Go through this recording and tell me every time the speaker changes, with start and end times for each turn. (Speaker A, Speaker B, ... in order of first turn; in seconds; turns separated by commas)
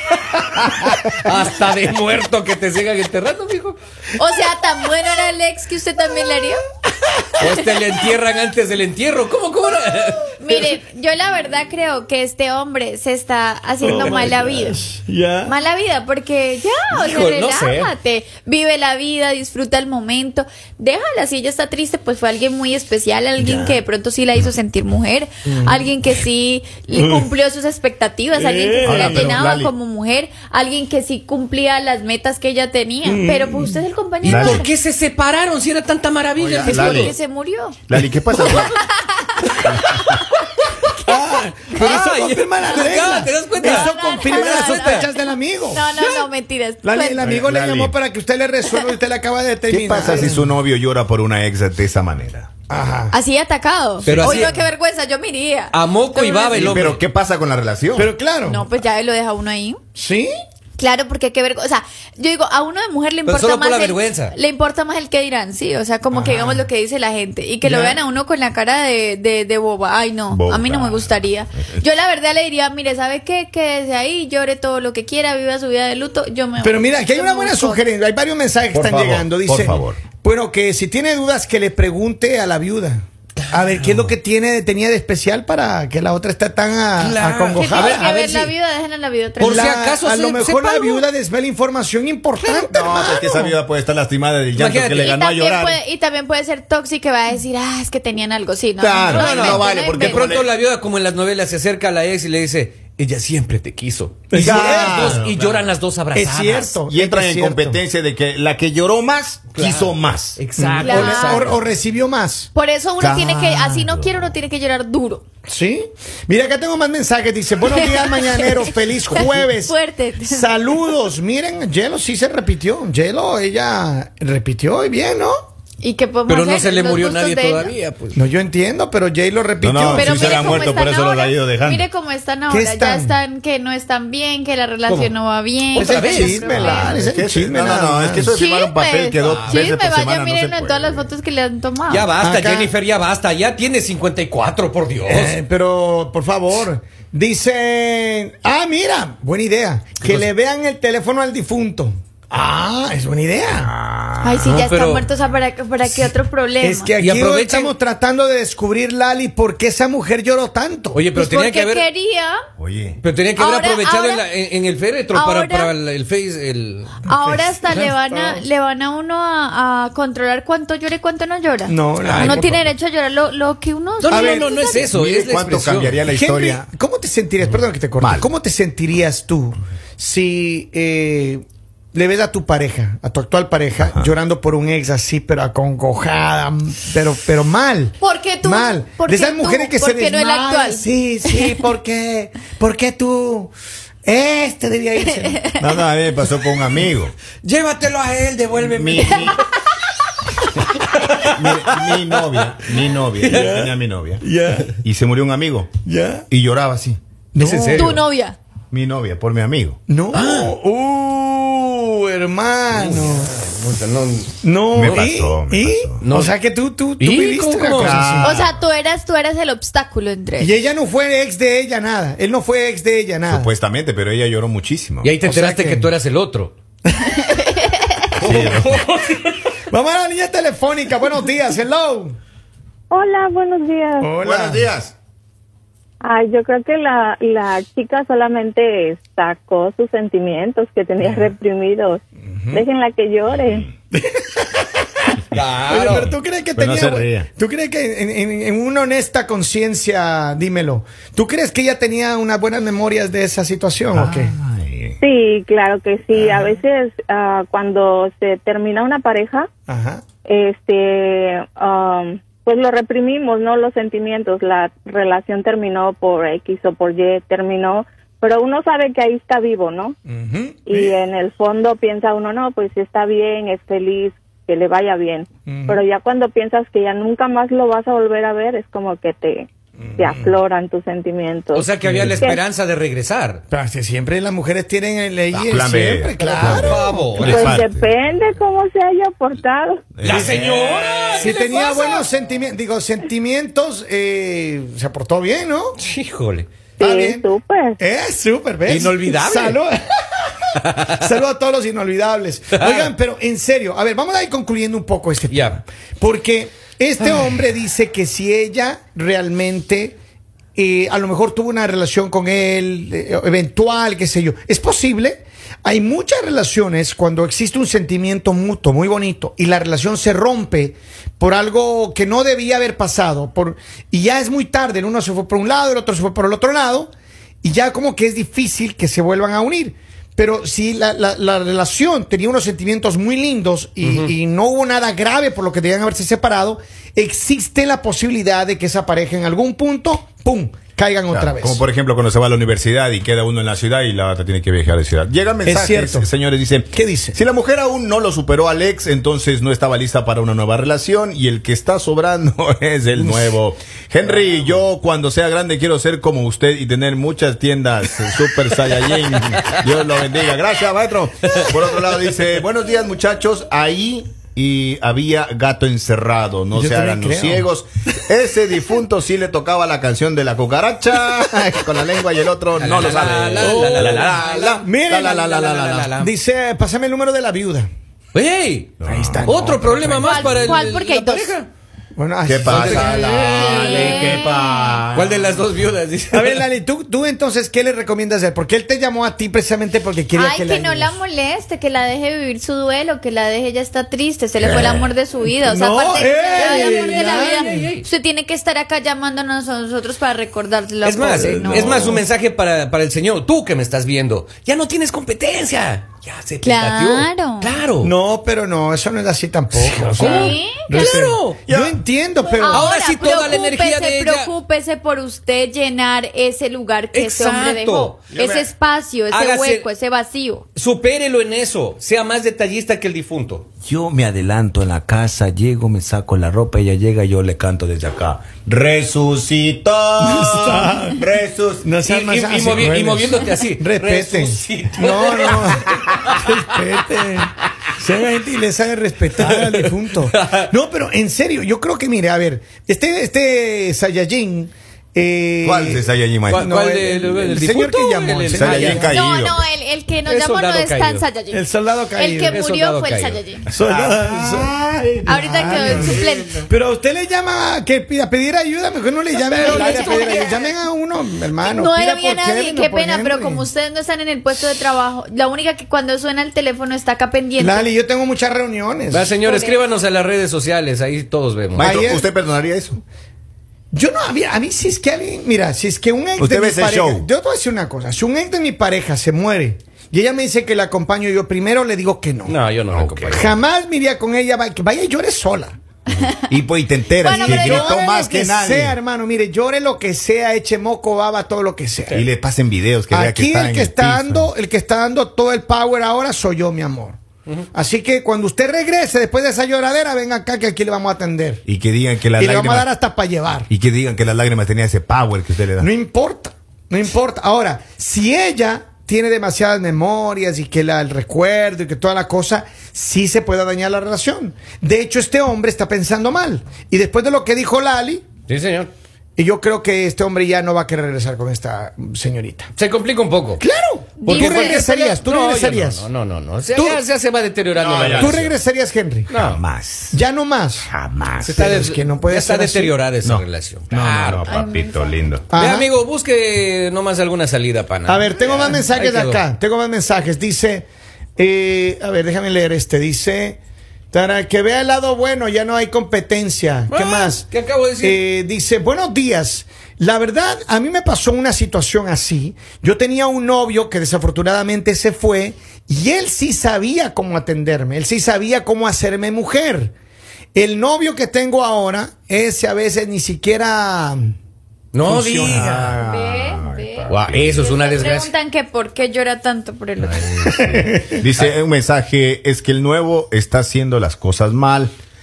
Speaker A: 0.1-3.8, Speaker B: 4.2-6.6, Speaker A: 7.4-10.4, Speaker B: 10.4-14.8, Speaker C: 13.8-15.6, Speaker B: 15.4-34.7, Speaker A: 16.9-17.9, Speaker C: 23.4-23.8, Speaker C: 25.5-25.9, Speaker C: 26.9-27.3, Speaker C: 28.4-29.3, Speaker D: 28.8-29.7, Speaker C: 33.0-33.8, Speaker D: 34.2-34.6, Speaker A: 34.2-37.1, Speaker D: 36.4-37.1, Speaker B: 36.6-37.8, Speaker D: 37.9-38.8, Speaker B: 38.4-40.3, Speaker D: 39.6-40.0, Speaker C: 40.9-46.2, Speaker A: 41.7-45.1, Speaker B: 43.6-45.1, Speaker B: 45.7-47.3, Speaker C: 46.8-50.5, Speaker D: 47.2-47.9, Speaker D: 49.7-52.5, Speaker C: 52.7-53.1, Speaker B: 53.1-56.8, Speaker A: 54.0-54.5, Speaker C: 54.1-54.7, Speaker A: 55.7-57.0, Speaker D: 56.5-58.1, Speaker C: 58.0-58.7, Speaker B: 58.5-59.8, Speaker C: 60.0-60.3, Speaker B: 60.8-77.8, Speaker A: 63.3-64.3, Speaker C: 66.1-66.7, Speaker C: 67.6-68.0, Speaker D: 70.3-71.1, Speaker C: 76.6-88.1, Speaker D: 78.7-80.0, Speaker A: 83.4-84.1, Speaker A: 87.0-88.5, Speaker B: 87.5-91.0, Speaker A: 89.4-90.5, Speaker C: 89.4-93.6, Speaker D: 92.5-95.8, Speaker A: 94.5-95.1, Speaker B: 95.0-100.4, Speaker D: 98.8-100.5, Speaker A: 99.1-106.8, Speaker C: 104.3-105.2, Speaker D: 104.3-105.7, Speaker C: 106.1-107.8, Speaker D: 106.9-110.4, Speaker A: 109.5-111.6, Speaker C: 110.6-112.5, Speaker B: 110.8-111.5, Speaker B: 112.5-115.2, Speaker D: 113.0-114.3, Speaker C: 113.1-113.8, Speaker C: 115.5-125.4, Speaker B: 117.7-120.6, Speaker B: 125.8-127.7, Speaker A: 126.3-128.2, Speaker C: 128.1-130.7, Speaker D: 129.6-131.9, Speaker B: 129.9-136.9, Speaker C: 132.5-133.2, Speaker A: 135.8-136.3, Speaker C: 135.8-138.4, Speaker D: 136.2-141.1, Speaker B: 138.3-142.1, Speaker A: 139.2-139.6, Speaker A: 141.9-145.4, Speaker C: 142.2-142.7, Speaker C: 145.1-153.7, Speaker D: 153.6-154.6, Speaker B: 154.2-156.9, Speaker A: 154.4-155.1, Speaker C: 155.9-161.0, Speaker A: 157.0-157.7, Speaker A: 160.9-161.9, Speaker B: 161.1-162.4, Speaker D: 162.6-163.0, Speaker A: 163.0-167.2, Speaker B: 163.4-164.2, Speaker B: 165.1-165.7, Speaker B: 167.0-174.9, Speaker C: 167.8-168.4, Speaker C: 171.7-172.7, Speaker A: 172.0-172.5, Speaker A: 174.0-176.0, Speaker C: 174.1-174.6, Speaker D: 174.8-176.6, Speaker C: 176.1-193.5, Speaker B: 188.0-191.6, Speaker C: 194.0-195.4, Speaker B: 195.2-195.6, Speaker D: 195.6-197.1, Speaker A: 197.4-199.4, Speaker D: 198.6-199.4, Speaker B: 199.0-199.4, Speaker A: 200.9-203.6, Speaker D: 201.2-204.2, Speaker C: 203.2-204.7, Speaker D: 204.8-205.7, Speaker C: 205.8-206.3, Speaker D: 206.3-207.0, Speaker C: 207.3-208.0, Speaker A: 207.4-208.0, Speaker B: 207.7-208.4, Speaker D: 208.7-209.8, Speaker C: 209.9-213.3, Speaker A: 210.1-210.5, Speaker A: 212.7-215.0, Speaker C: 214.4-218.4, Speaker D: 214.7-216.0, Speaker A: 216.0-216.3, Speaker A: 217.0-218.1, Speaker D: 217.7-218.5, Speaker B: 218.2-220.5, Speaker C: 220.4-223.5, Speaker D: 223.3-225.1, Speaker A: 225.0-226.5, Speaker C: 225.2-225.9, Speaker C: 226.9-227.3, Speaker B: 227.1-228.1, Speaker A: 228.1-229.6, Speaker D: 228.2-228.9, Speaker C: 229.7-232.2, Speaker E: 232.9-234.1, Speaker C: 234.0-234.7, Speaker D: 234.2-234.9, Speaker E: 236.0-243.7, Speaker C: 242.4-242.6, Speaker C: 243.9-254.3, Speaker A: 245.3-246.1, Speaker D: 245.9-247.3, Speaker D: 253.9-255.0, Speaker E: 255.0-259.5, Speaker C: 256.2-256.5, Speaker C: 259.7-260.1, Speaker E: 260.3-269.9, Speaker C: 270.1-270.9, Speaker E: 270.7-282.4, Speaker C: 275.5-275.8, Speaker C: 279.8-280.4, Speaker A: 281.5-283.4, Speaker D: 281.9-282.2, Speaker C: 283.5-287.6, Speaker D: 285.3-287.9, Speaker A: 286.4-287.6, Speaker E: 287.2-289.9, Speaker D: 290.0-291.4, Speaker A: 290.0-292.0, Speaker C: 290.1-295.8, Speaker B: 291.6-292.0, Speaker A: 295.8-296.5, Speaker C: 296.8-297.2, Speaker E: 296.8-297.8, Speaker C: 297.8-310.0, Speaker A: 298.7-299.6, Speaker A: 300.6-301.0, Speaker A: 302.5-302.9, Speaker A: 305.3-305.6, Speaker C: 310.6-326.9, Speaker C: 327.4-341.6, Speaker A: 333.8-334.1, Speaker D: 341.1-376.0, Speaker C: 345.4-346.1, Speaker C: 346.7-347.2, Speaker C: 353.0-353.3, Speaker C: 366.5-367.5, Speaker A: 372.6-376.1, Speaker C: 373.4-375.2, Speaker C: 375.9-377.7, Speaker A: 378.1-381.5, Speaker D: 378.8-379.4, Speaker C: 378.9-380.6, Speaker B: 380.0-381.4, Speaker C: 381.9-383.2, Speaker D: 382.3-385.4, Speaker A: 382.4-384.2, Speaker B: 383.1-384.9, Speaker A: 384.9-386.4, Speaker C: 386.1-391.0, Speaker B: 390.1-401.9, Speaker D: 394.4-394.9, Speaker C: 395.2-397.7, Speaker A: 396.4-397.9, Speaker A: 400.8-407.9, Speaker C: 401.1-402.0, Speaker D: 401.6-402.0, Speaker B: 406.4-407.5, Speaker C: 407.8-412.7, Speaker A: 409.6-411.4, Speaker B: 410.0-410.8, Speaker D: 411.5-411.8, Speaker B: 412.2-420.4, Speaker A: 412.5-414.3, Speaker A: 416.9-418.0, Speaker D: 418.1-418.5, Speaker A: 419.1-419.7, Speaker A: 420.6-423.5, Speaker D: 423.6-431.7, Speaker C: 430.0-431.0, Speaker C: 431.6-449.0, Speaker A: 431.8-436.3, Speaker A: 439.2-440.5, Speaker D: 445.4-446.6, Speaker A: 446.3-449.0, Speaker D: 448.3-449.4, Speaker B: 448.8-451.4, Speaker A: 450.1-451.1, Speaker C: 451.3-452.4, Speaker B: 452.0-453.5, Speaker A: 452.3-453.2, Speaker C: 453.5-463.4, Speaker D: 453.6-456.0, Speaker B: 455.1-456.5, Speaker A: 459.3-460.2, Speaker B: 459.4-460.2, Speaker B: 461.4-467.7, Speaker C: 467.4-469.2, Speaker A: 468.9-471.9, Speaker B: 469.2-469.6, Speaker D: 471.6-472.8, Speaker C: 471.6-472.1, Speaker C: 473.7-482.4, Speaker D: 476.2-477.1, Speaker A: 482.3-483.3, Speaker D: 482.7-483.3, Speaker C: 483.1-485.6, Speaker D: 486.3-488.8, Speaker B: 487.0-487.8, Speaker C: 487.1-492.1, Speaker D: 491.9-494.3, Speaker C: 492.9-497.0, Speaker C: 497.5-501.4, Speaker D: 501.5-502.7, Speaker C: 502.2-503.5, Speaker D: 503.5-505.7, Speaker C: 505.6-518.1, Speaker A: 518.3-518.7, Speaker C: 519.2-522.5, Speaker A: 522.6-523.4, Speaker C: 523.4-525.9, Speaker B: 524.0-524.6, Speaker A: 524.1-528.3, Speaker C: 526.5-526.8, Speaker D: 527.5-528.3, Speaker C: 527.9-529.1, Speaker A: 529.1-529.4, Speaker D: 529.1-530.0, Speaker C: 529.9-530.7, Speaker D: 530.7-531.5, Speaker C: 531.2-532.8, Speaker A: 531.2-534.3, Speaker D: 533.0-535.3, Speaker B: 534.3-534.9, Speaker C: 535.3-535.7, Speaker A: 535.3-539.2, Speaker C: 537.9-540.7, Speaker C: 541.2-543.4, Speaker C: 543.9-547.3, Speaker A: 546.7-548.0, Speaker C: 547.8-559.7, Speaker C: 560.3-564.2, Speaker A: 564.7-565.7, Speaker C: 564.8-565.8, Speaker D: 565.3-567.5, Speaker B: 565.8-570.4, Speaker A: 566.9-568.1, Speaker C: 570.2-571.0, Speaker D: 570.3-574.7